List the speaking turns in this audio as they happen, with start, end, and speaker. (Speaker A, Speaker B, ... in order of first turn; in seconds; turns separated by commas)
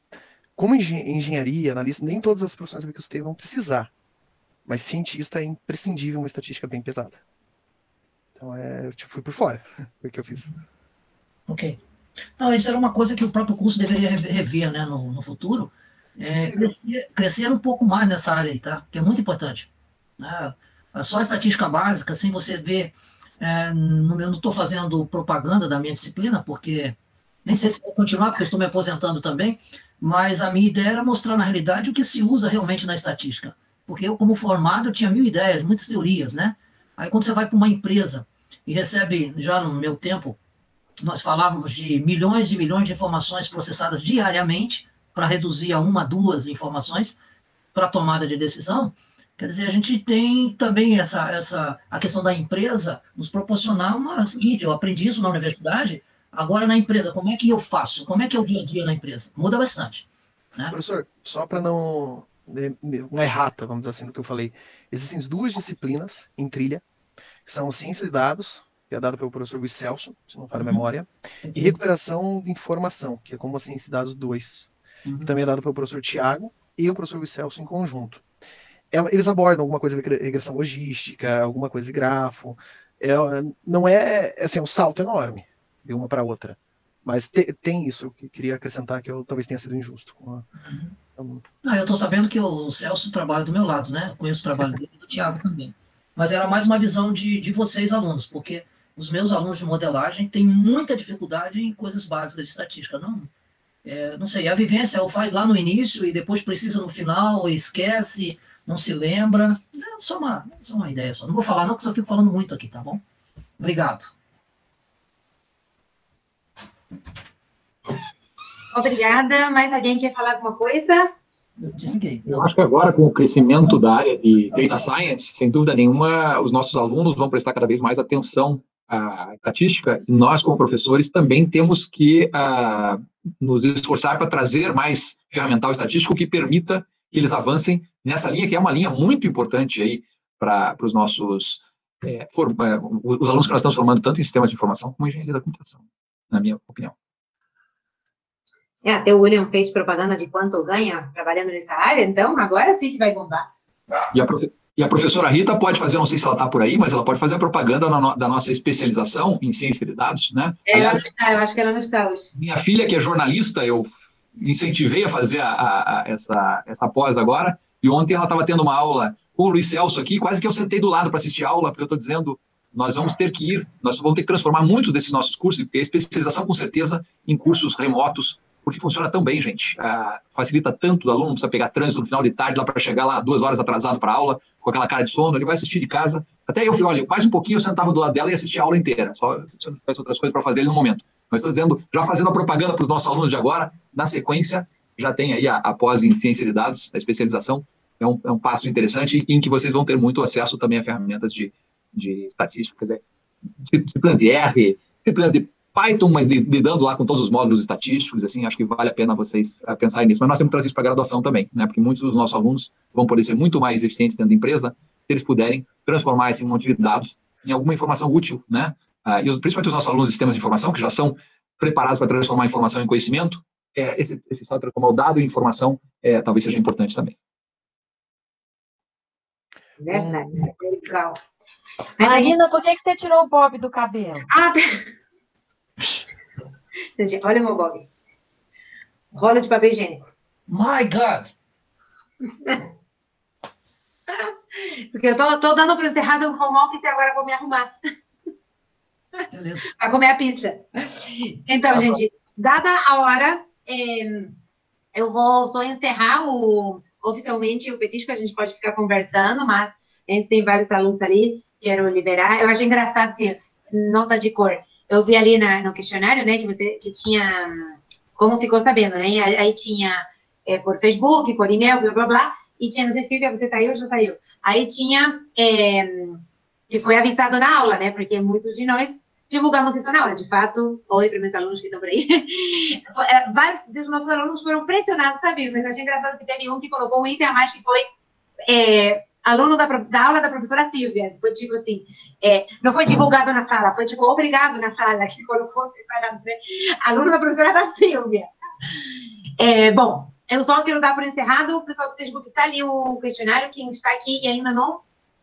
Speaker A: 0.6-3.9, Speaker A: 4.7-7.2, Speaker A: 8.4-10.5, Speaker B: 11.5-11.8, Speaker B: 12.4-40.4, Speaker A: 16.4-16.6, Speaker B: 41.0-47.2, Speaker B: 47.7-60.8, Speaker A: 60.7-66.8, Speaker A: 67.5-74.7, Speaker B: 71.5-71.8, Speaker B: 75.1-75.3, Speaker A: 75.2-78.2, Speaker A: 78.9-90.5, Speaker B: 90.6-90.9, Speaker A: 91.2-91.4, Speaker B: 91.6-103.3, Speaker B: 103.8-113.0, Speaker B: 113.6-114.1, Speaker C: 118.7-121.1, Speaker B: 121.6-122.5, Speaker D: 122.2-146.9, Speaker B: 124.5-124.9, Speaker C: 148.8-153.5, Speaker D: 154.1-161.1, Speaker C: 160.7-162.3, Speaker D: 162.3-203.0, Speaker D: 203.6-227.2, Speaker C: 229.8-231.2, Speaker C: 232.0-232.4, Speaker E: 232.0-234.3, Speaker C: 234.3-234.8, Speaker C: 237.0-237.9, Speaker C: 239.1-240.1, Speaker B: 240.5-241.3, Speaker C: 244.1-247.7, Speaker B: 249.3-249.7, Speaker C: 249.8-254.4, Speaker B: 250.8-252.0, Speaker C: 254.9-287.9, Speaker C: 288.5-298.3, Speaker C: 299.4-304.8